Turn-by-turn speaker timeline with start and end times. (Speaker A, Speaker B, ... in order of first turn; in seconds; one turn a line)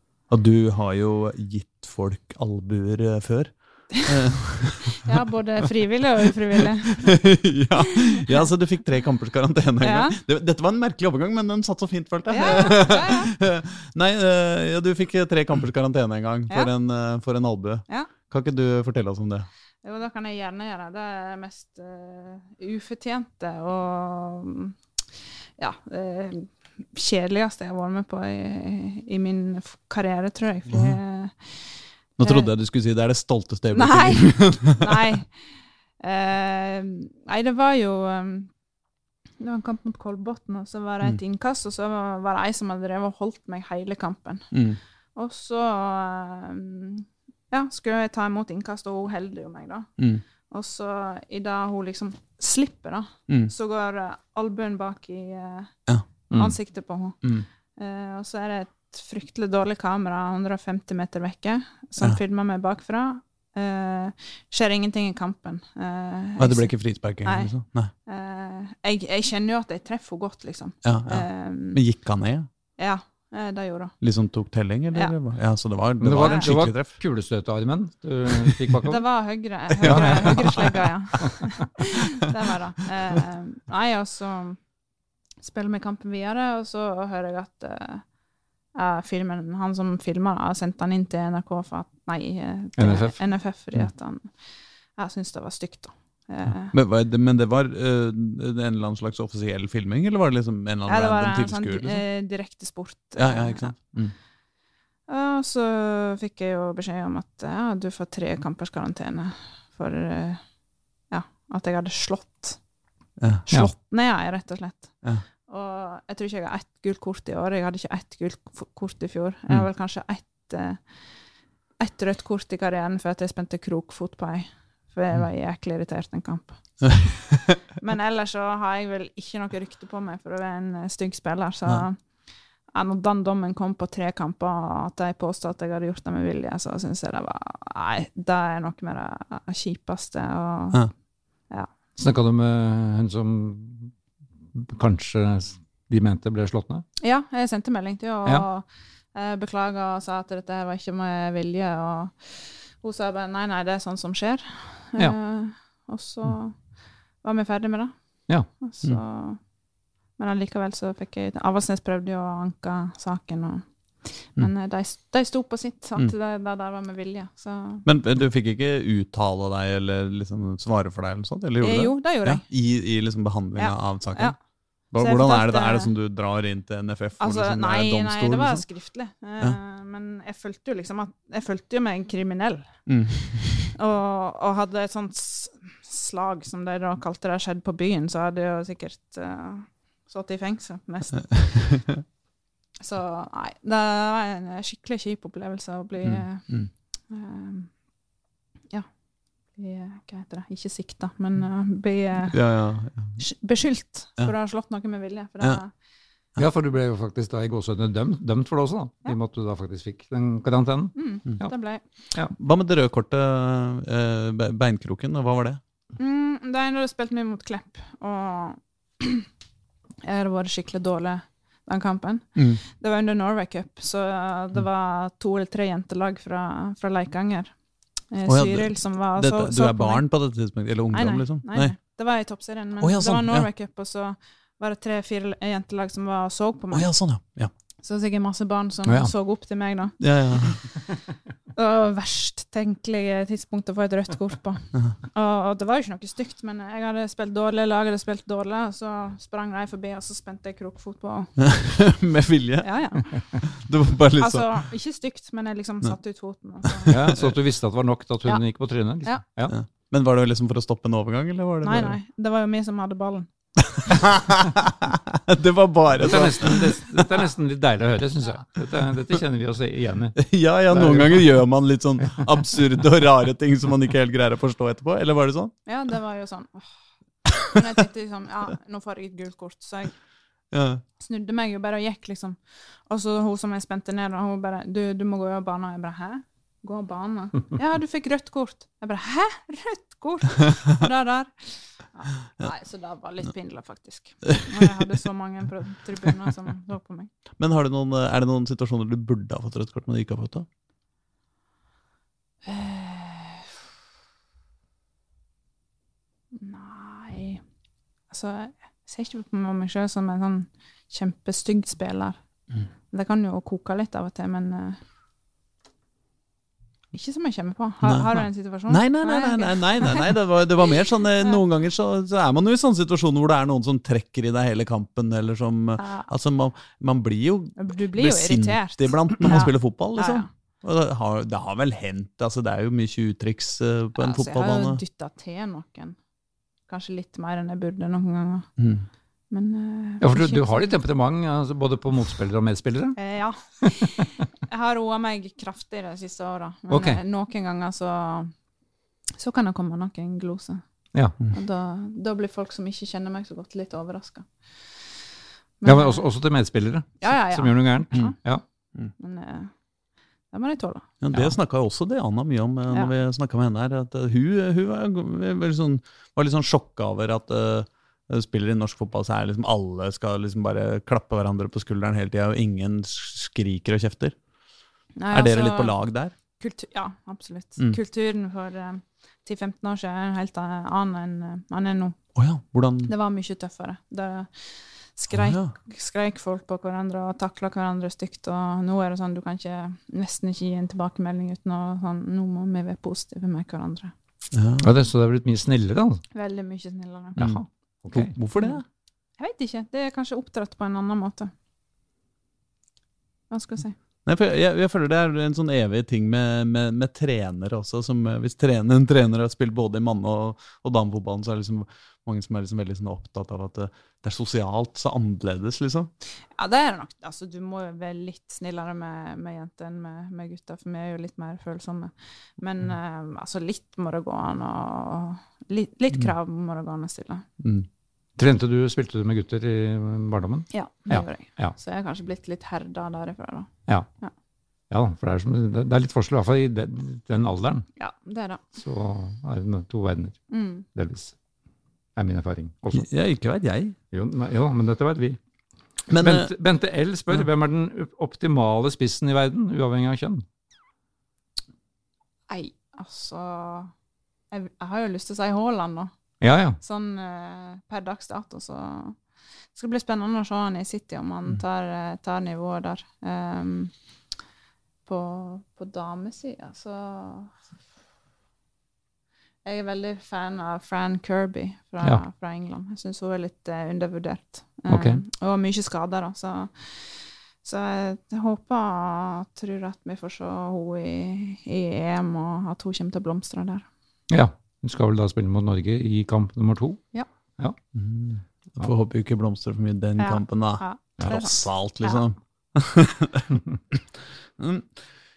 Speaker A: 0.3-5.2
Speaker B: 4.9-7.2
Speaker A: 6.5-19.5
Speaker B: 7.8-8.4
Speaker B: 9.8-10.2
Speaker B: 12.3-13.3
Speaker B: 19.8-24.8
Speaker B: 25.6-32.5
Speaker A: 30.7-31.0
Speaker A: 32.2-35.1
Speaker B: 33.7-35.3
Speaker B: 36.0-38.5
Speaker B: 39.4-44.5
Speaker A: 44.5-44.8
Speaker B: 45.1-49.9
Speaker A: 50.0-50.2
Speaker B: 50.5-55.7
Speaker B: 56.3-57.2
Speaker B: 57.8-66.7
Speaker A: 66.4-67.9
Speaker B: 67.2-67.5
Speaker B: 68.0-71.8
Speaker A: 70.8-72.5
Speaker B: 72.8-74.0
Speaker A: 74.0-76.9
Speaker C: 76.0-79.0
Speaker B: 76.2-76.5
Speaker B: 78.8-84.6
Speaker A: 79.8-80.9
Speaker C: 79.8-80.7
Speaker C: 81.2-81.5
Speaker B: 85.4-88.0
Speaker B: 88.7-94.3
Speaker C: 92.8-93.2
Speaker B: 95.0-96.7
Speaker A: 96.7-102.0
Speaker B: 100.9-103.7
Speaker A: 103.2-104.1
Speaker B: 105.1-110.4
Speaker B: 111.1-112.6
Speaker A: 113.2-113.5
Speaker B: 113.5-120.8
Speaker B: 121.8-127.1
Speaker A: 126.8-127.3
Speaker B: 127.8-132.0
Speaker B: 132.7-140.9
Speaker C: 141.9-143.9
Speaker C: 144.5-146.8
Speaker B: 147.0-156.7
Speaker B: 157.2-157.9
Speaker B: 158.5-159.4
Speaker B: 160.2-167.8
Speaker A: 167.8-174.3
Speaker B: 171.6-172.4
Speaker B: 173.6-174.3
Speaker A: 174.9-178.6
Speaker B: 174.9-175.9
Speaker B: 177.2-182.7
Speaker A: 182.9-183.7
Speaker B: 183.7-191.8
Speaker B: 192.8-197.7
Speaker A: 196.0-196.7
Speaker B: 199.6-202.4
Speaker A: 202.3-203.2
Speaker B: 203.2-205.7
Speaker C: 206.4-211.5
Speaker B: 210.9-211.8
Speaker A: 212.3-215.6
Speaker B: 216.0-219.3
Speaker B: 220.0-227.5
Speaker B: 228.1-230.0
Speaker A: 228.2-231.7
Speaker B: 230.9-236.9
Speaker A: 232.8-233.5
Speaker A: 236.7-237.5
Speaker B: 237.8-240.5
Speaker C: 238.8-239.1
Speaker A: 240.0-240.6
Speaker B: 241.5-251.5
Speaker A: 251.4-254.5
Speaker B: 252.6-253.5
Speaker B: 254.2-257.1
Speaker C: 256.9-259.6
Speaker A: 259.5-262.0
Speaker B: 261.6-263.3
Speaker A: 263.6-267.1
Speaker C: 266.0-271.2
Speaker A: 270.2-275.5
Speaker B: 275.6-276.7
Speaker B: 277.3-279.9
Speaker A: 280.5-280.8
Speaker B: 281.0-297.1
Speaker A: 294.4-294.7
Speaker A: 297.4-300.5
Speaker B: 302.4-303.5
Speaker B: 306.3-307.4
Speaker B: 308.1-312.2
Speaker B: 312.9-314.8
Speaker B: 316.9-320.2
Speaker A: 317.8-334.8
Speaker B: 325.8-326.1
Speaker B: 327.6-330.3
Speaker B: 334.0-336.0
Speaker B: 336.7-338.5
Speaker A: 338.6-338.8
Speaker B: 339.3-340.7
Speaker C: 340.0-343.0
Speaker B: 343.0-348.3
Speaker C: 343.6-344.2
Speaker C: 346.7-347.0
Speaker B: 349.2-350.6
Speaker B: 351.3-354.3
Speaker B: 355.6-356.1
Speaker C: 355.6-358.4
Speaker B: 357.0-358.1
Speaker B: 359.0-359.5
Speaker B: 360.3-360.9
Speaker A: 361.0-374.1
Speaker B: 375.0-375.7
Speaker A: 375.1-376.1
Speaker B: 376.4-382.0
Speaker A: 382.1-382.9
Speaker B: 382.9-393.9
Speaker A: 385.1-385.5
Speaker A: 394.3-394.6
Speaker C: 394.6-396.0
Speaker B: 396.1-397.2
Speaker C: 397.2-398.1
Speaker A: 397.9-398.6
Speaker B: 399.2-401.3
Speaker B: 403.3-403.7
Speaker A: 404.1-415.9
Speaker B: 416.4-427.2
Speaker A: 427.4-427.7
Speaker C: 428.2-431.5
Speaker B: 430.5-434.1
Speaker C: 434.7-437.6
Speaker B: 437.8-438.4
Speaker C: 438.6-440.2
Speaker B: 440.3-440.6
Speaker C: 440.7-441.1
Speaker C: 441.9-442.9
Speaker A: 442.7-443.8
Speaker C: 443.9-445.2
Speaker A: 445.9-446.3
Speaker C: 445.9-450.2
Speaker B: 452.3-453.7
Speaker B: 454.3-455.9
Speaker C: 456.2-456.6
Speaker B: 456.6-459.0
Speaker B: 459.5-463.7
Speaker B: 464.9-467.3
Speaker B: 469.4-483.6
Speaker C: 474.7-475.0
Speaker C: 484.1-486.8
Speaker A: 487.7-493.8
Speaker B: 490.0-492.0
Speaker A: 494.4-494.7